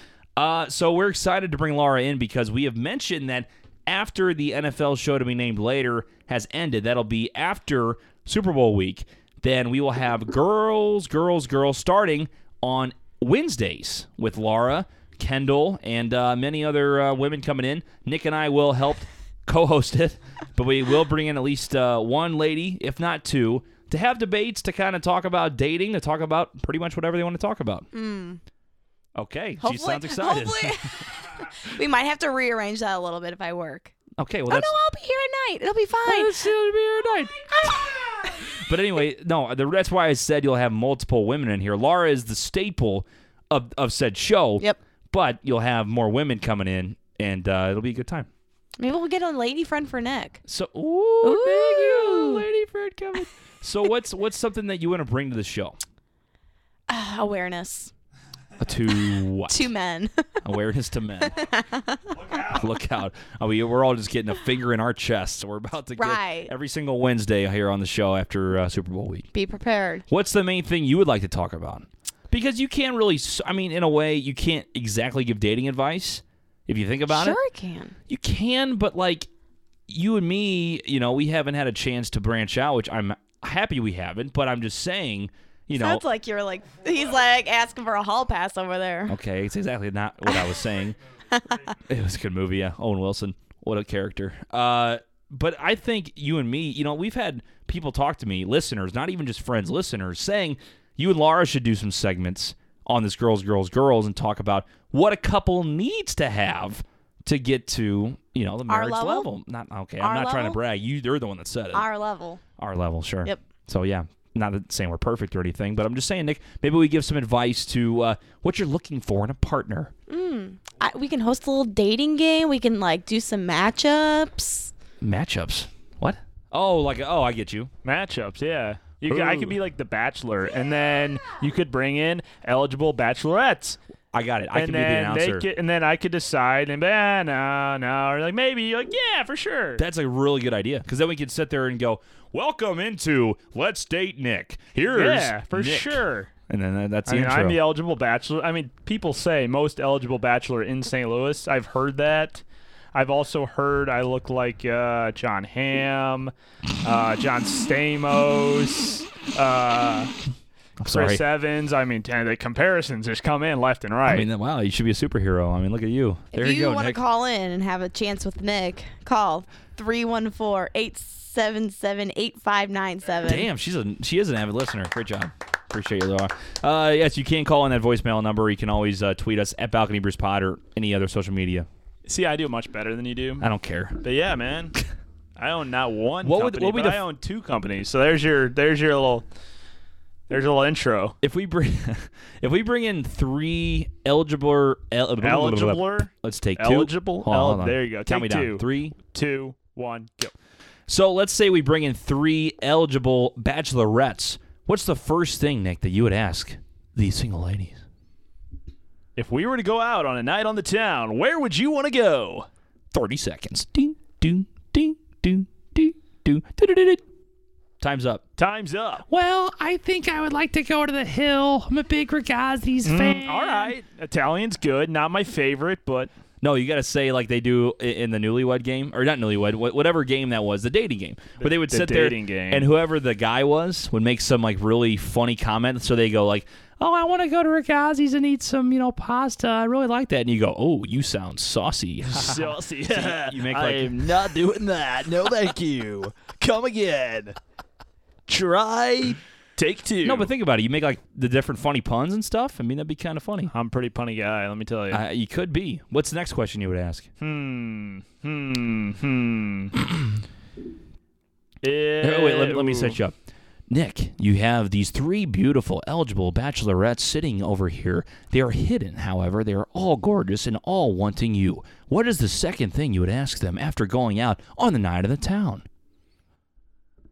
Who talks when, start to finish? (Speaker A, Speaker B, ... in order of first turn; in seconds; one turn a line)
Speaker A: 0.4-27.9
Speaker B: 27.9-28.4
Speaker A: 29.2-30.9
Speaker B: 29.6-33.9
Speaker A: 34.2-34.7
Speaker B: 34.5-36.5
Speaker A: 36.0-48.3
Speaker B: 37.3-38.6
Speaker B: 48.8-50.4
Speaker A: 50.5-55.8
Speaker B: 51.2-52.5
Speaker B: 56.9-57.9
Speaker A: 58.6-59.7
Speaker B: 59.5-60.4
Speaker A: 60.4-61.4
Speaker B: 61.3-62.0
Speaker A: 62.4-69.3
Speaker B: 66.0-66.5
Speaker B: 69.3-70.0
Speaker A: 70.1-77.4
Speaker B: 77.1-77.9
Speaker A: 78.1-79.3
Speaker A: 79.9-86.0
Speaker B: 85.7-89.2
Speaker A: 89.1-91.0
Speaker B: 91.3-91.8
Speaker A: 91.9-111.8
Speaker B: 108.7-109.3
Speaker B: 110.0-110.6
Speaker B: 111.7-112.4
Speaker A: 112.6-119.9
Speaker B: 120.1-124.7
Speaker A: 125.0-127.7
Speaker C: 127.8-133.8
Speaker A: 129.1-129.6
Speaker A: 134.1-135.5
Speaker C: 134.5-139.8
Speaker A: 139.8-147.6
Speaker C: 144.9-146.3
Speaker C: 147.1-152.4
Speaker C: 152.9-160.1
Speaker A: 160.8-161.2
Speaker C: 160.8-164.3
Speaker A: 164.1-167.0
Speaker B: 166.3-173.5
Speaker A: 173.2-181.7
Speaker C: 182.1-183.4
Speaker A: 183.4-184.0
Speaker C: 184.0-184.8
Speaker C: 185.4-189.2
Speaker A: 186.2-187.0
Speaker C: 190.3-191.2
Speaker A: 191.2-198.9
Speaker C: 195.2-200.3
Speaker A: 200.9-207.8
Speaker C: 209.2-212.5
Speaker A: 212.9-217.0
Speaker A: 217.8-218.2
Speaker C: 218.4-219.0
Speaker A: 219.1-223.7
Speaker C: 222.8-226.1
Speaker A: 226.4-244.5
Speaker C: 231.4-232.7
Speaker C: 242.0-247.4
Speaker C: 248.3-250.3
Speaker A: 250.0-253.5
Speaker C: 253.5-255.0
Speaker A: 254.9-257.1
Speaker C: 257.2-259.7
Speaker C: 261.6-263.0
Speaker A: 262.0-263.2
Speaker A: 263.7-275.6